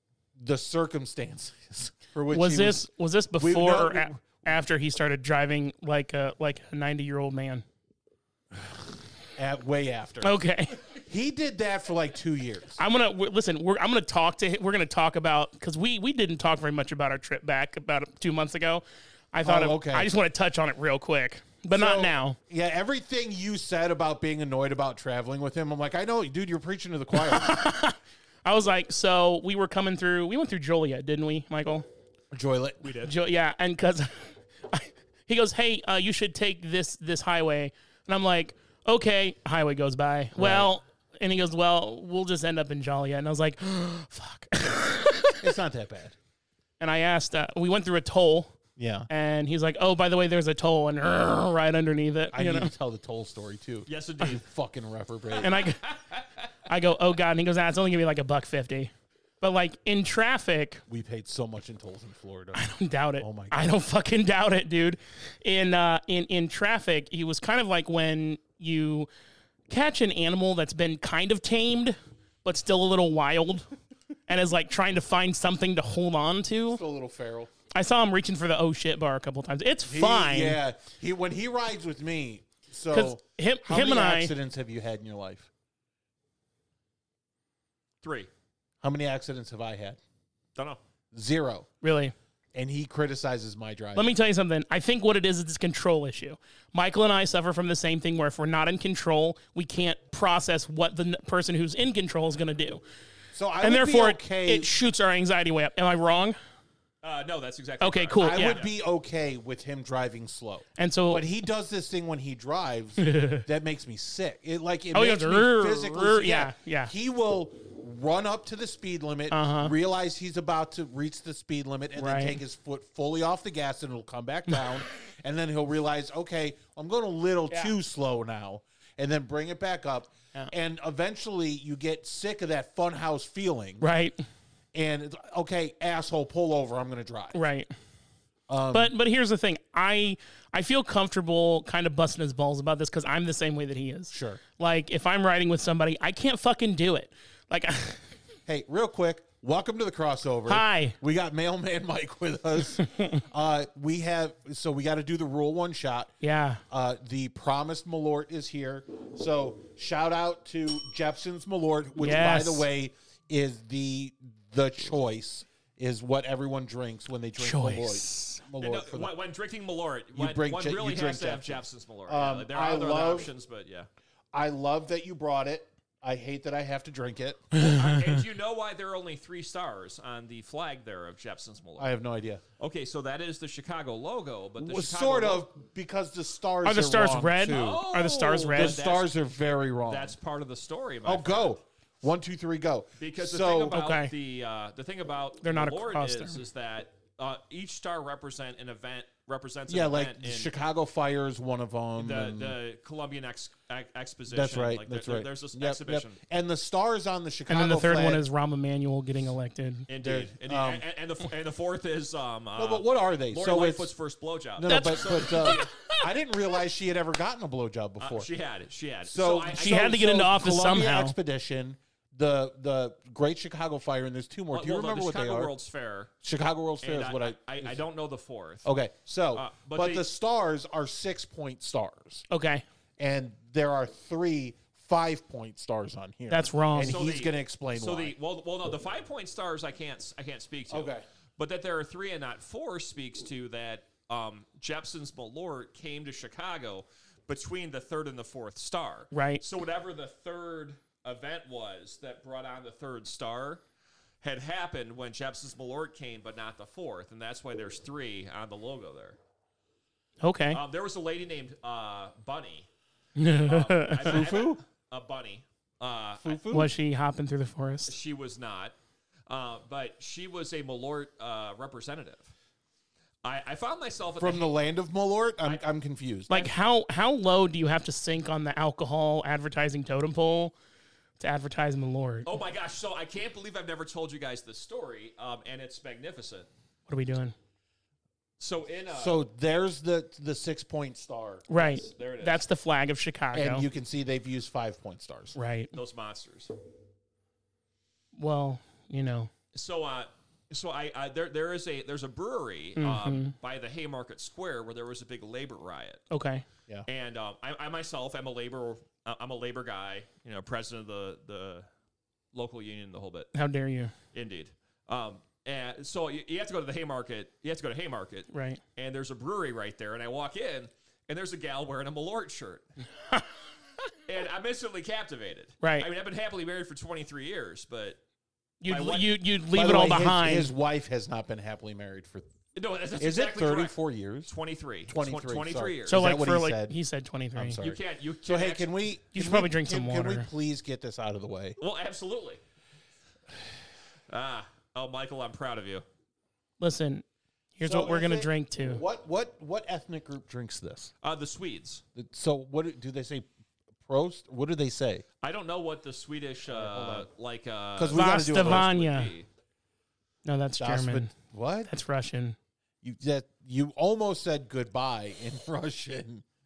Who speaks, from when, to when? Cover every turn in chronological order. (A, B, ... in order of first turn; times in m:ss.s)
0:00.4-0:02.8 A
0:02.3-0:07.6 B
0:03.4-0:04.4 A
0:08.5-0:12.8 A
0:10.2-0:10.8 B
0:12.8-0:22.4 B
0:19.4-0:20.1 A
0:21.7-0:27.6 A
0:27.1-0:31.9 B
0:32.3-0:33.0 A
0:32.8-0:33.1 C
0:33.0-0:45.4 B
0:40.4-0:40.7 A
0:45.4-0:46.2 A
0:46.8-0:48.5 B
0:48.8-0:49.1 A
0:49.1-0:52.7 B
0:52.3-0:55.6 A
0:53.9-0:54.4 C
0:55.4-0:56.3 C
0:55.4-0:55.9 B
0:56.7-1:00.8 B
1:00.9-1:02.6 A
1:02.5-1:09.1 B
1:03.2-1:03.8 A
1:09.7-1:13.7 B
1:14.3-1:16.8 B
1:16.7-1:17.5 A
1:17.7-1:20.6 B
1:19.8-1:25.5 A
1:22.9-1:24.3 B
1:28.0-1:28.3 C
1:28.8-1:30.0 A
1:31.1-1:31.7 A
1:31.8-1:32.1 B
1:32.5-1:34.1 A
1:34.0-1:42.8 B
1:43.3-1:44.7 A
1:43.6-1:46.4 B
1:47.0-1:48.7 C
1:47.8-1:48.6 B
1:48.2-2:13.8 A
1:50.8-1:51.2 B
1:53.0-1:53.4 B
1:54.9-1:56.9 B
1:59.3-1:59.7 B
2:02.0-2:02.4 B
2:13.8-2:14.2 B
2:14.7-2:17.4 A
2:17.3-2:17.7 B
2:18.5-2:18.9 A
2:18.7-2:28.0 B
2:24.1-2:24.4 A
2:28.5-2:36.1 A
2:30.5-2:31.0 B
2:32.9-2:33.2 B
2:36.2-2:36.6 B
2:36.7-2:49.1 A
2:42.0-2:42.7 B
2:47.4-2:48.4 B
2:48.6-2:53.9 C
2:50.1-2:53.3 A
2:54.3-2:57.5 A
2:57.5-2:58.2 B
2:57.5-3:01.9 C
3:01.8-3:02.4 A
3:02.6-3:05.5 C
3:04.6-3:07.8 A
3:06.6-3:08.8 B
3:07.5-3:09.1 C
3:08.5-3:10.2 A
3:09.9-3:11.6 C
3:11.0-3:13.8 A
3:13.0-3:20.5 C
3:13.7-3:14.1 B
3:15.4-3:16.4 B
3:19.7-3:22.6 A
3:22.0-3:26.2 C
3:24.3-3:28.2 A
3:27.5-3:29.9 B
3:29.9-3:35.7 C
3:30.0-3:30.8 A
3:32.6-3:33.9 A
3:34.6-3:38.3 A
3:34.7-3:36.0 B
3:38.0-3:39.9 C
3:39.0-3:45.5 A
3:39.5-3:41.2 B
3:44.5-3:46.1 C
3:46.2-3:47.8 A
3:46.8-3:48.7 C
3:48.6-3:52.2 A
3:49.3-3:50.1 C
3:52.3-3:52.6 B
3:53.0-3:58.1 A
3:56.3-3:57.0 B
3:56.9-4:13.6 C
4:00.7-4:01.0 A
4:09.1-4:09.4 B
4:14.2-4:19.2 C
4:20.2-4:20.6 B
4:20.5-4:22.7 C
4:23.2-4:24.2 B
4:23.5-4:26.4 C
4:24.0-4:24.6 A
4:26.2-4:26.7 A
4:26.5-4:27.9 B
4:27.9-4:28.8 C
4:29.3-4:32.3 C
4:33.2-4:34.5 C
4:34.2-4:36.4 A
4:36.3-4:40.6 B
4:41.2-4:42.3 B
4:42.2-4:46.5 C
4:46.9-4:47.4 B
4:48.4-4:49.2 C
4:48.9-4:51.5 A
4:51.5-4:53.7 B
4:51.5-4:52.4 C
4:53.3-4:55.4 A
4:55.4-4:55.7 B
4:55.7-4:56.5 C
4:58.2-4:59.3 B
4:59.5-5:06.1 C
5:02.8-5:03.3 B
5:06.1-5:06.4 B
5:06.9-5:11.7 C
5:12.3-5:13.3 C
5:13.3-5:13.9 B
5:14.1-5:22.7 C
5:18.3-5:18.6 B
5:24.1-5:28.0 C
5:25.6-5:25.9 B
5:28.6-5:30.5 B
5:28.7-5:29.2 C
5:29.5-5:32.3 A
5:32.6-5:33.8 C
5:33.0-5:34.3 A
5:34.3-5:36.0 C
5:34.9-5:36.8 A
5:35.9-5:37.6 B
5:37.4-5:41.6 A
5:37.6-5:38.7 C
5:39.1-5:40.3 B
5:41.6-5:42.4 C
5:44.1-5:45.8 C
5:46.6-5:47.0 B
5:47.6-5:48.8 B
5:47.6-5:50.9 A
5:51.0-5:51.8 C
5:52.0-5:53.3 A
5:53.8-5:55.0 A
5:55.2-5:59.3 C
5:56.5-5:57.1 A
5:57.8-5:58.7 A
5:57.9-5:59.1 B
6:00.2-6:01.1 B
6:00.6-6:01.7 A
6:01.7-6:02.4 B
6:02.8-6:06.2 A